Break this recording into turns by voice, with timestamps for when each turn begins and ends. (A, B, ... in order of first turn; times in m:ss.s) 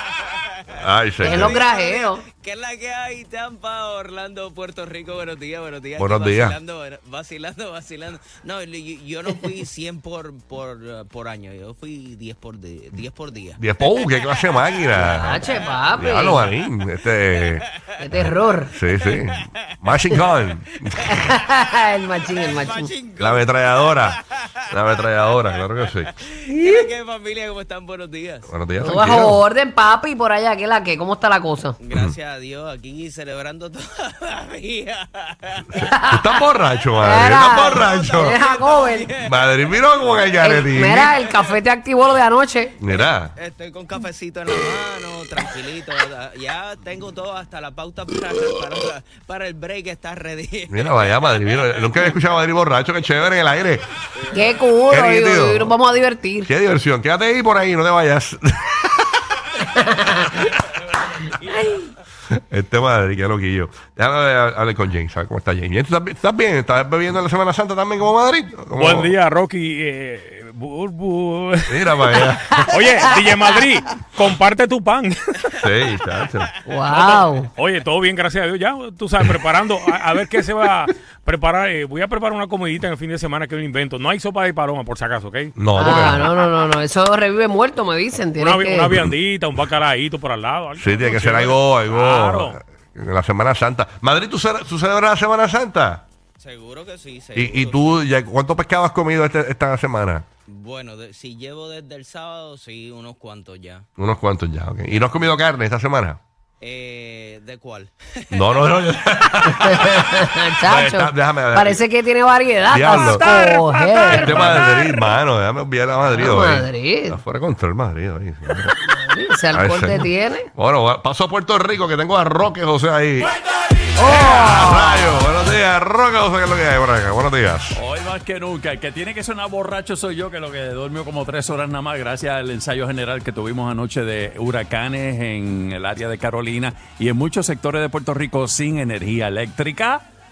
0:00.8-0:01.5 A
0:01.2-0:16.2 B
0:01.2-0:02.2 C
0:06.0-0:06.6 A
0:13.6-0:15.4 A
0:15.0-0:16.5 C
0:16.0-0:17.6 A
0:18.0-0:18.7 C
0:18.2-0:20.9 A
0:20.1-0:20.5 B
0:21.0-0:22.9 C
0:22.3-0:24.2 B
0:23.2-0:24.2 A
0:24.7-0:26.1 A
0:24.8-0:25.7 B
0:26.5-0:28.5 B
0:26.5-0:26.8 C
0:28.5-0:29.4 A
0:28.8-0:31.8 C
0:31.8-0:33.8 B
0:34.5-0:34.8 B
0:35.6-0:35.9 B
0:35.8-0:36.3 C
0:35.8-0:38.4 A
0:37.0-0:39.1 C
0:37.5-0:40.6 B
0:39.2-0:41.1 A
0:40.4-0:42.8 C
0:42.8-0:43.3 A
0:42.8-0:52.2 B
0:50.7-0:53.8 A
0:54.3-0:56.5 C
0:54.9-0:55.8 A
0:56.4-0:59.2 A
0:59.8-1:00.4 C
1:01.5-1:01.9 C
1:02.3-1:09.1 A
1:08.8-1:15.2 D
1:11.7-1:12.6 A
1:12.2-1:13.4 C
1:15.6-1:16.5 A
1:16.6-1:17.5 C
1:16.9-1:25.6 D
1:25.6-1:26.3 A
1:25.8-1:29.0 C
1:28.4-1:32.6 D
1:30.8-1:36.0 A
1:36.4-1:37.9 B
1:37.4-1:40.2 A
1:40.6-1:43.8 B
1:44.0-1:46.2 A
1:46.6-1:48.7 B
1:48.3-1:50.0 A
1:49.5-1:54.6 C
1:50.6-1:51.8 A
1:52.7-1:58.7 A
1:54.0-1:54.5 D
1:56.1-1:57.2 C
1:58.9-2:00.5 C
1:59.5-2:03.3 A
2:04.0-2:05.2 C
2:04.0-2:07.8 A
2:07.7-2:20.0 E